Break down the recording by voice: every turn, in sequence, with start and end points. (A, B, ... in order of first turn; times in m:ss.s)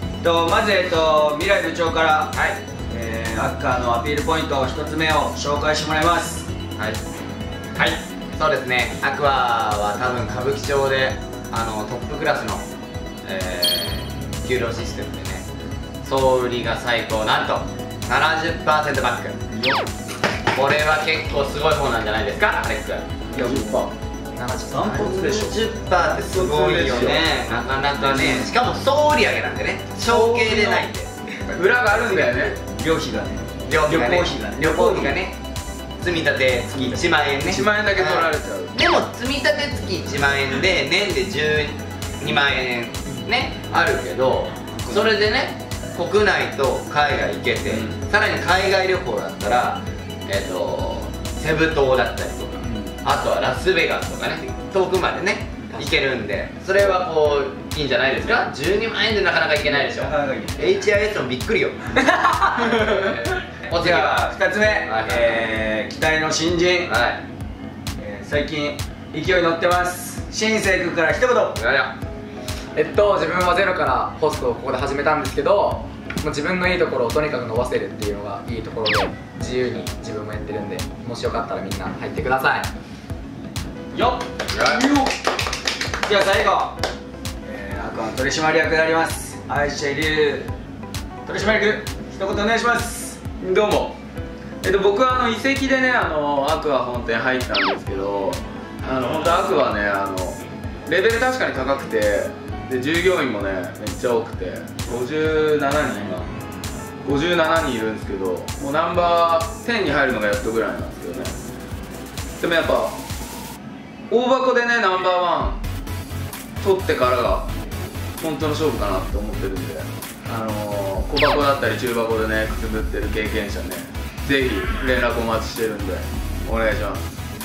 0:00.2-0:02.4 A
0:02.3-0:02.6 B
0:02.9-0:06.5 A
0:07.8-0:12.6 B
0:13.2-0:15.5 B
0:16.0-0:19.4 B
0:19.5-0:19.8 A
0:20.5-0:23.1 B
0:23.3-0:23.9 A
0:23.3-0:23.9 C
0:24.4-0:25.2 D
0:24.7-0:25.5 A
0:24.9-0:31.1 B
0:26.2-0:27.3 C
0:28.0-0:28.5 A
0:30.0-0:30.9 C
0:31.5-0:32.6 C
0:31.5-0:35.2 A
0:32.0-0:32.5 D
0:33.7-0:35.4 B
0:36.0-1:01.9 B
0:36.7-0:37.0 A
0:37.5-0:38.8 C
0:44.7-0:45.1 A
0:47.7-0:48.0 A
0:52.6-0:52.9 A
0:59.7-1:00.9 A
1:02.0-1:02.8 D
1:02.7-1:05.5 B
1:03.8-1:06.9 A
1:06.8-1:07.2 B
1:08.0-1:11.6 A
1:11.6-1:12.0 B
1:12.8-1:22.7 D
1:23.9-1:25.1 A
1:24.5-1:24.8 B
1:26.0-1:26.8 A
1:27.4-1:30.5 A
1:31.2-1:33.2 A
1:33.4-1:34.0 C
1:34.6-1:46.2 C
1:47.0-1:51.4 C
1:52.4-1:53.0 C
1:54.1-1:55.6 C
1:56.6-1:57.5 C
1:58.2-2:07.0 C